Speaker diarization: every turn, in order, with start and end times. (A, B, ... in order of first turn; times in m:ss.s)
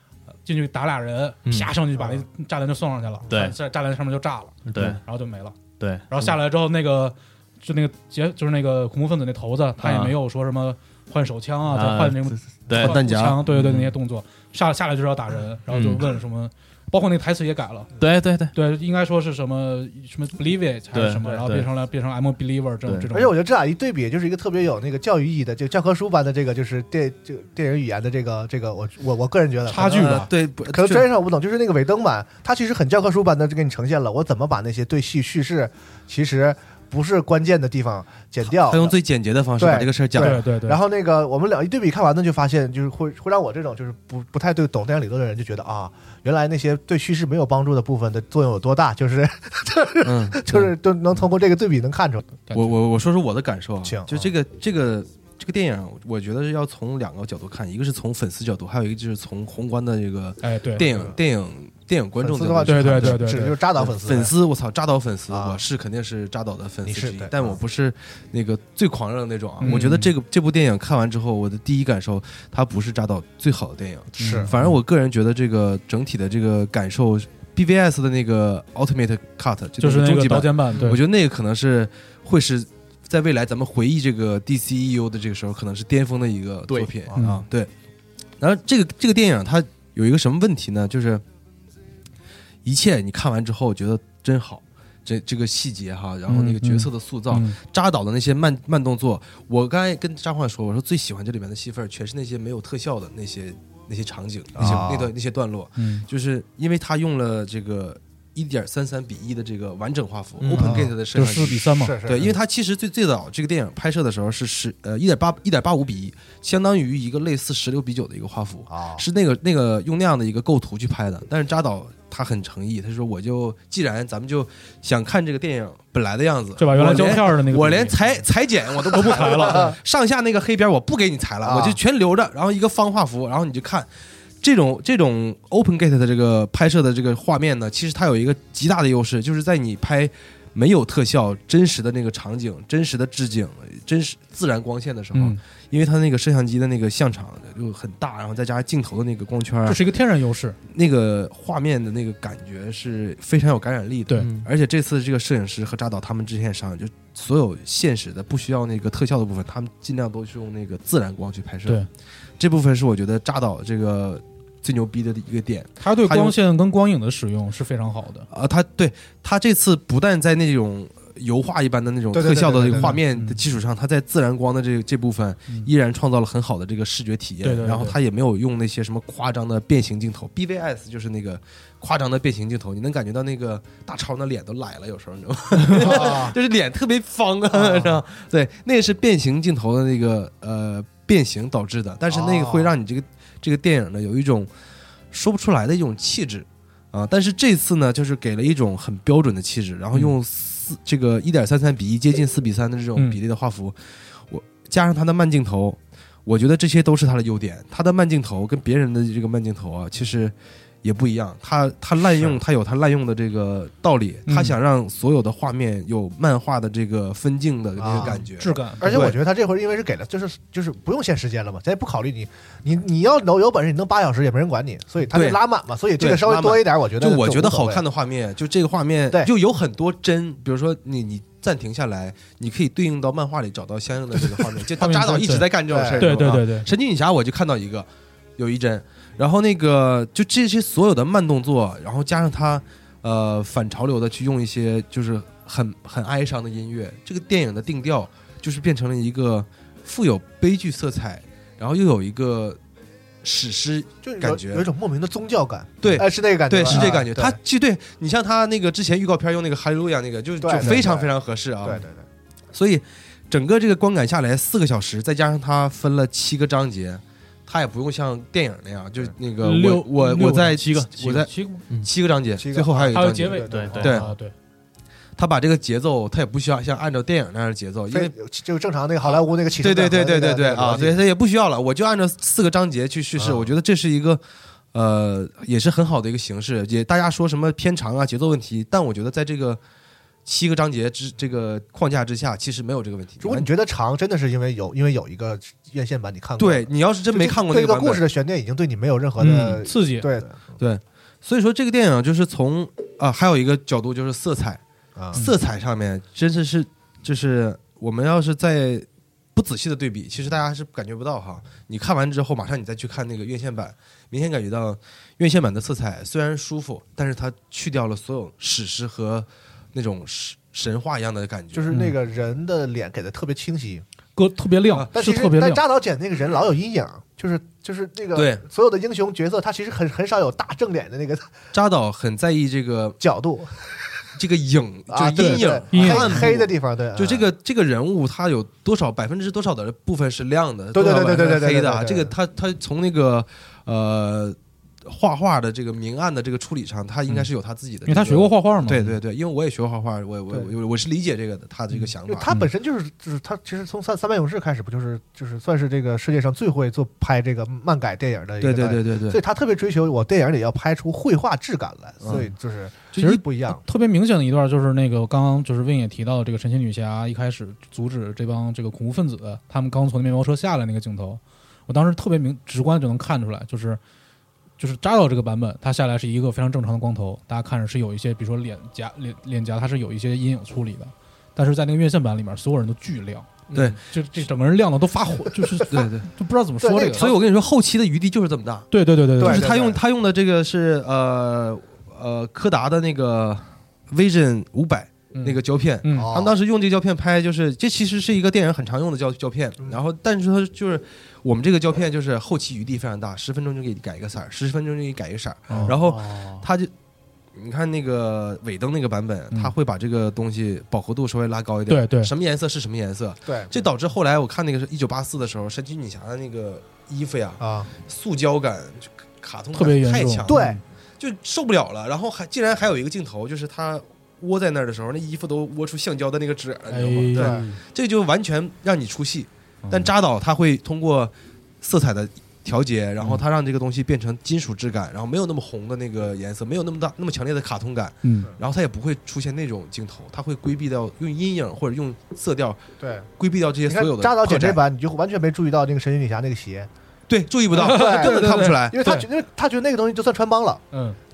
0:00.5-0:05.6 A
0:01.5-0:01.7 B
0:03.3-0:03.6 B
0:04.7-0:05.0 B
0:05.8-0:06.1 B
0:06.1-0:17.9 A
0:09.8-0:10.2 B
0:11.7-0:13.9 B
0:12.7-0:13.4 C
0:15.7-0:16.0 B
0:18.0-0:18.5 B
0:18.5-0:23.3 A
0:20.9-0:21.7 B
0:23.1-0:39.0 D
0:29.7-0:30.3 A
0:29.8-0:31.1 C
0:38.6-0:40.4 C
0:39.6-0:52.4 D
0:40.2-0:40.8 A
0:50.0-0:50.5 C
0:52.5-0:52.7 A
0:52.5-1:03.2 C
0:53.8-0:54.3 D
1:00.4-1:00.9 A
1:00.8-1:01.2 D
1:02.2-1:04.3 D
1:02.6-1:03.6 A
1:03.8-1:27.7 C
1:05.3-1:05.6 D
1:06.8-1:07.6 D
1:09.6-1:10.1 A
1:14.2-1:14.5 D
1:14.2-1:14.8 A
1:19.8-1:21.0 A
1:27.2-1:27.4 A
1:28.4-1:31.2 C
1:32.6-2:13.9 C
1:36.3-1:37.6 A
1:44.6-1:45.1 D
1:45.8-1:46.1 A
1:50.4-1:50.7 B
1:50.6-1:50.9 D
1:50.8-1:52.0 A
1:51.8-1:52.4 D
1:58.7-1:59.0 D
2:06.6-2:08.0 A
2:08.9-2:09.7 A
2:09.1-2:09.8 D
2:11.4-2:11.8 D
2:14.4-2:29.8 C
2:25.1-2:25.4 A
2:29.7-2:30.6 A
2:30.7-2:41.8 C
2:34.2-2:34.5 B
2:42.4-2:46.4 C
2:45.8-2:48.3 A
2:48.3-3:14.5 C
2:52.1-2:53.0 D
2:52.7-2:53.4 A
2:57.4-2:58.0 A
3:05.7-3:06.4 D
3:07.5-3:08.0 D
3:12.1-3:12.8 D
3:15.1-3:23.8 C
3:24.3-3:39.2 C
3:32.0-3:32.4 D
3:34.3-3:34.6 A
3:37.8-3:38.2 D
3:38.0-3:39.0 A
3:38.8-3:47.8 D
3:45.1-3:45.4 C
3:46.0-3:57.9 C
3:54.2-3:54.6 D
3:54.8-3:56.7 A
3:55.7-3:56.3 D
3:58.4-4:12.6 C
4:13.2-4:14.7 C
4:14.0-4:17.4 D
4:15.8-4:21.8 C
4:20.4-4:21.1 D
4:21.6-4:22.1 D
4:22.5-4:34.1 C
4:29.4-4:31.6 A
4:30.6-4:31.0 B
4:32.4-4:34.1 D
4:32.9-4:34.3 A
4:33.5-4:33.9 B
4:35.2-4:38.1 C
4:37.9-4:41.0 D
4:39.6-4:44.2 C
4:43.2-4:43.5 D
4:44.7-4:49.6 C
4:50.2-4:53.5 C
4:53.2-5:00.5 D
4:56.4-4:58.0 C
4:59.2-5:00.2 A
4:59.3-4:59.5 C
5:00.6-5:04.6 C
5:05.0-5:05.2 D
5:05.1-5:21.7 C
5:21.5-5:23.8 D
5:24.2-5:25.6 A
5:24.9-5:31.3 D
5:28.2-5:28.4 C
5:31.5-5:33.0 C
5:33.0-5:33.6 D
5:34.2-5:52.3 C
5:34.9-5:37.3 D
5:35.2-5:36.3 A
5:40.7-5:42.2 D
5:47.9-5:49.0 A
5:52.1-6:03.6 D
5:58.4-5:59.2 C
6:02.0-6:02.3 C
6:03.0-6:13.8 A
6:14.6-6:27.1 A
6:23.5-6:23.8 B
6:23.5-6:23.8 C
6:25.4-6:25.8 D
6:25.7-6:26.1 C
6:26.6-6:27.2 D
6:26.9-6:46.7 C
6:28.7-6:29.5 A
6:29.2-6:29.8 D
6:35.2-6:36.1 A
6:36.0-6:36.3 D
6:45.5-6:45.8 A
6:45.5-6:46.4 D
6:47.4-7:00.4 C
6:51.7-6:52.1 A
6:53.2-6:53.7 D
6:57.4-6:57.7 D
6:59.5-7:00.6 A
7:00.3-7:00.6 D
7:01.0-7:22.6 C
7:06.7-7:07.6 A
7:07.2-7:07.4 D
7:09.6-7:09.9 A
7:18.0-7:18.3 A
7:22.8-7:23.1 D
7:23.2-7:24.6 C
7:23.7-7:26.7 D
7:27.1-7:28.8 C
7:27.6-7:30.6 D
7:27.6-7:29.1 A
7:30.7-7:31.0 A